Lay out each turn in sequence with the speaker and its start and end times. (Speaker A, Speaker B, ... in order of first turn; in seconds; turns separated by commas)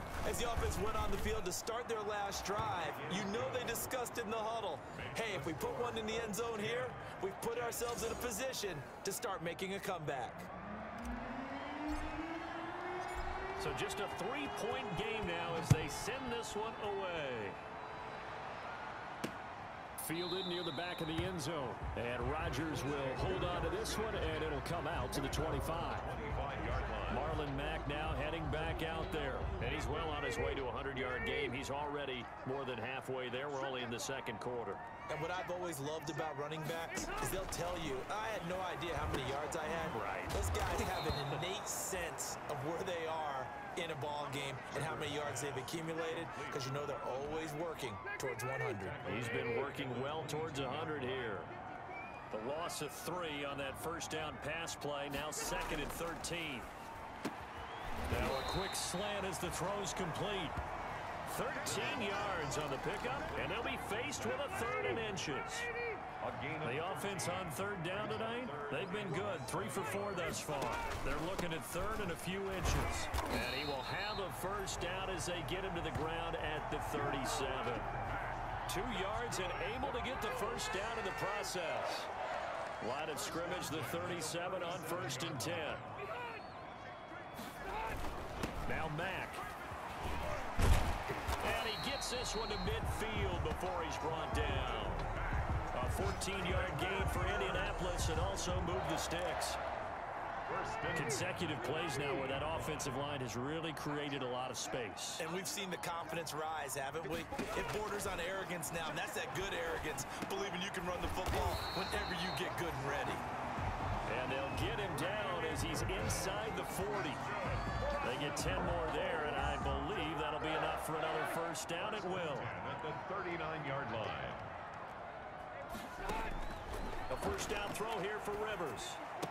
Speaker A: 0.2-10.5, Speaker B: 2.9-3.9, Speaker B: 4.9-8.2, Speaker C: 13.6-17.6, Speaker C: 20.0-26.1, Speaker B: 25.7-27.4, Speaker C: 27.1-34.8, Speaker A: 35.1-49.0, Speaker C: 39.9-40.4, Speaker B: 44.7-47.3, Speaker B: 48.7-51.5, Speaker C: 49.0-51.5, Speaker C: 52.3-56.7, Speaker C: 58.1-60.6, Speaker C: 61.2-65.7, Speaker B: 61.7-62.1, Speaker B: 66.2-70.5, Speaker C: 66.6-77.9, Speaker C: 78.7-82.1, Speaker C: 82.8-85.9, Speaker B: 83.1-85.8, Speaker C: 88.7-89.4, Speaker C: 91.4-95.1, Speaker B: 95.1-95.5, Speaker C: 95.7-99.6, Speaker B: 100.5-102.9, Speaker C: 100.9-105.2, Speaker A: 105.2-113.2, Speaker C: 114.1-117.3, Speaker B: 115.4-116.2, Speaker B: 117.1-118.5, Speaker C: 118.0-122.5, Speaker B: 122.1-124.5, Speaker C: 127.1-129.0